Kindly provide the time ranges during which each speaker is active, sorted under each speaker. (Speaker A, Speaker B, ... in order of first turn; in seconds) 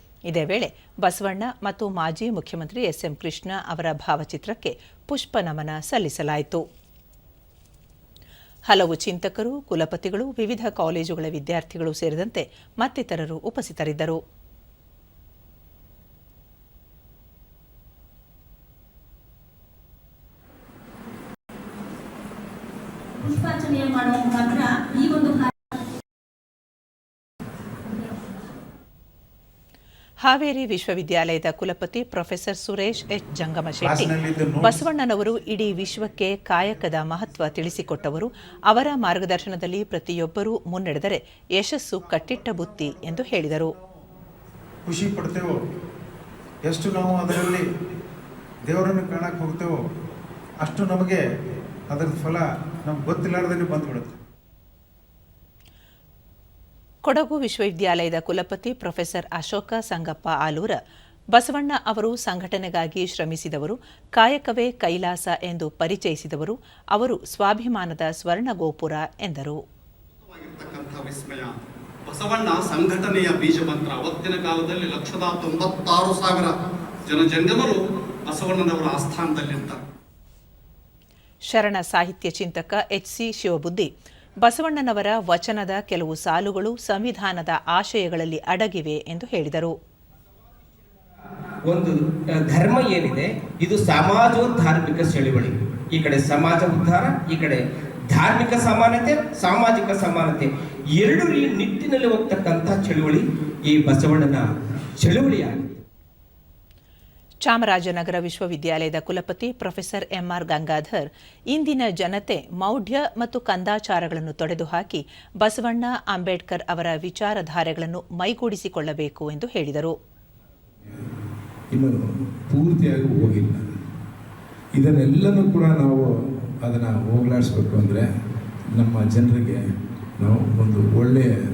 Speaker A: 0.3-6.7, 8.7-14.2, 30.2-34.1, 34.6-43.8, 57.0-60.8, 61.3-69.6, 81.5-89.8, 107.4-120.0
Speaker B: 23.2-25.8
Speaker C: 33.8-34.8, 44.9-45.6, 46.6-47.7, 48.7-49.8, 50.6-51.2, 51.9-54.2
Speaker D: 70.3-76.5, 77.1-79.8
Speaker E: 91.7-104.5, 105.0-105.7
Speaker F: 121.7-122.0, 122.5-123.7, 124.8-128.1, 128.7-129.6, 130.2-131.3